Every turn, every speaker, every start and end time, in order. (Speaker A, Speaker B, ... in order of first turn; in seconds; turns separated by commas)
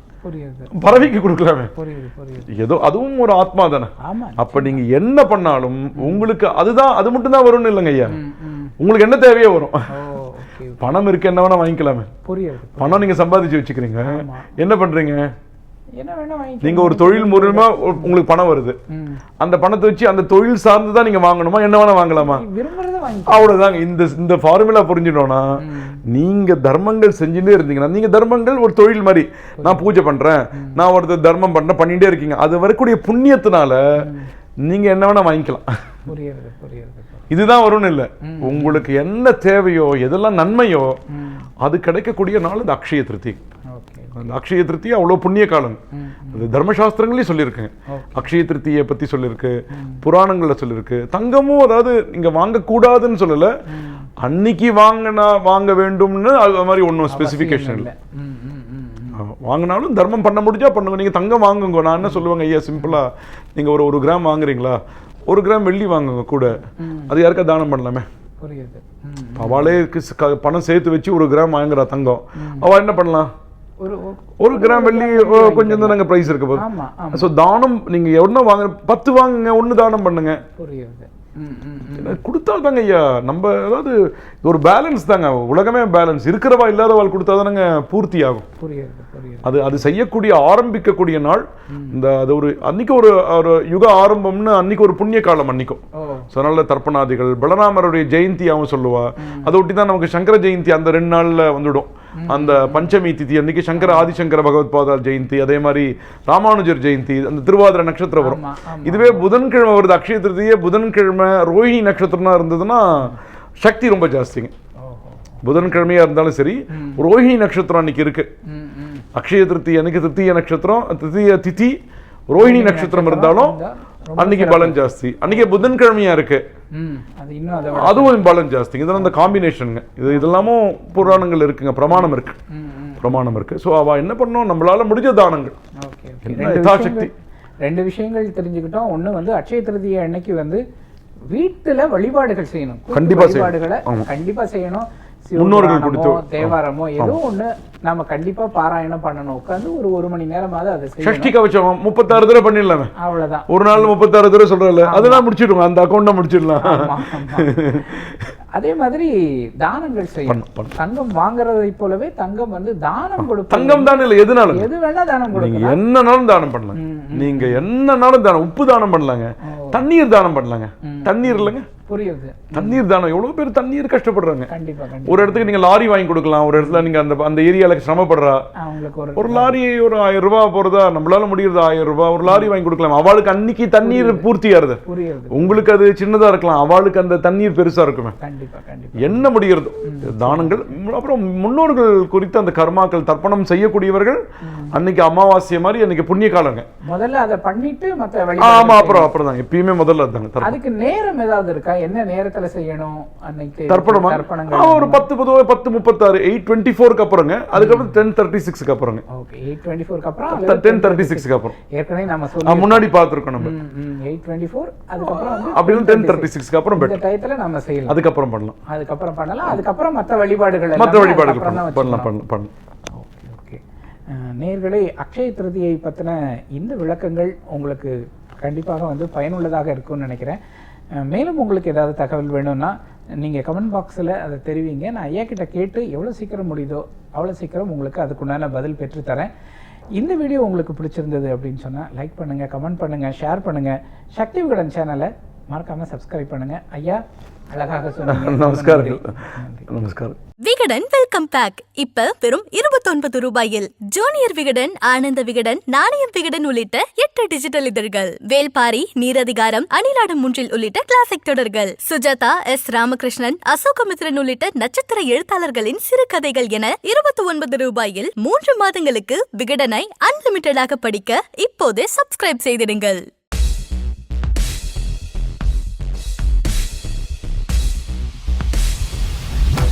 Speaker A: 0.2-1.1, Speaker B: 0.7-1.7, Speaker A: 1.8-2.5, Speaker B: 2.5-8.2, Speaker A: 4.0-4.8, Speaker A: 6.0-6.3, Speaker A: 8.1-8.7, Speaker B: 8.8-9.9, Speaker A: 9.9-11.0, Speaker B: 10.8-12.1, Speaker A: 12.2-13.1, Speaker B: 12.8-15.3, Speaker A: 14.1-14.6, Speaker A: 16.0-18.2, Speaker B: 16.6-18.8, Speaker A: 18.9-19.2, Speaker B: 19.4-22.4, Speaker A: 22.2-23.6, Speaker B: 23.3-33.8, Speaker A: 25.6-26.0, Speaker A: 29.6-30.0, Speaker A: 30.6-30.8, Speaker A: 34.0-34.3, Speaker B: 34.7-35.6, Speaker A: 36.1-37.3, Speaker B: 37.3-41.0, Speaker A: 38.2-38.9, Speaker A: 41.1-41.5, Speaker B: 41.6-43.4, Speaker A: 43.7-44.2, Speaker B: 44.1-45.8, Speaker A: 45.9-46.5, Speaker B: 46.3-53.5, Speaker A: 47.9-48.3, Speaker A: 49.7-50.0, Speaker A: 53.7-54.1, Speaker B: 54.2-57.9, Speaker A: 57.1-59.2, Speaker B: 59.2-64.8, Speaker A: 62.0-62.3, Speaker B: 65.3-68.1, Speaker A: 66.6-67.2, Speaker A: 68.4-69.8, Speaker B: 69.4-73.3, Speaker A: 72.4-72.7, Speaker A: 73.8-77.3, Speaker B: 74.4-76.6, Speaker B: 77.1-80.4, Speaker A: 80.6-82.2, Speaker B: 81.9-88.5, Speaker A: 88.6-89.9, Speaker B: 89.4-114.5, Speaker A: 91.7-92.0, Speaker A: 96.0-96.3, Speaker A: 99.2-99.5, Speaker A: 102.2-103.0, Speaker A: 103.8-104.1, Speaker A: 108.2-109.3, Speaker A: 114.8-115.9, Speaker B: 115.4-118.3, Speaker A: 116.7-117.0, Speaker A: 118.5-119.1, Speaker B: 119.2-121.8, Speaker B: 122.3-123.6, Speaker A: 122.4-125.7, Speaker B: 124.2-126.4, Speaker A: 126.8-128.4, Speaker B: 127.7-132.4, Speaker A: 128.9-129.4, Speaker A: 130.1-130.5, Speaker A: 131.9-133.4, Speaker B: 133.0-135.6, Speaker A: 135.8-140.6, Speaker B: 136.2-137.1, Speaker A: 141.3-151.3, Speaker B: 142.9-144.1, Speaker B: 145.4-147.2, Speaker B: 151.0-152.9, Speaker A: 152.1-152.4, Speaker A: 153.0-154.0, Speaker B: 153.5-158.2, Speaker A: 154.8-155.3, Speaker A: 156.6-158.0, Speaker A: 158.6-165.8, Speaker B: 160.3-160.7, Speaker B: 163.2-164.7, Speaker B: 165.3-171.7, Speaker A: 166.8-167.7, Speaker A: 169.5-169.8, Speaker A: 170.8-172.8, Speaker B: 172.5-174.5, Speaker A: 174.5-175.5, Speaker B: 175.1-178.4, Speaker A: 176.6-176.9, Speaker A: 178.6-179.6, Speaker B: 179.2-188.2, Speaker A: 182.3-182.5, Speaker A: 183.8-184.3, Speaker A: 184.9-185.7, Speaker A: 188.2-189.3, Speaker B: 189.0-194.2, Speaker A: 189.9-190.7, Speaker A: 194.4-194.8, Speaker B: 194.7-196.7, Speaker A: 196.9-199.2, Speaker B: 198.4-200.6, Speaker A: 200.4-205.1, Speaker B: 203.7-209.0, Speaker A: 207.5-208.0, Speaker A: 209.1-218.0, Speaker B: 210.3-211.5, Speaker B: 212.4-213.5, Speaker B: 215.1-217.0, Speaker B: 217.9-218.6, Speaker A: 218.7-222.1, Speaker B: 220.8-222.5, Speaker A: 222.9-230.4, Speaker A: 231.0-239.3, Speaker A: 240.0-249.7, Speaker B: 248.1-249.2, Speaker B: 249.7-250.2, Speaker C: 250.4-273.1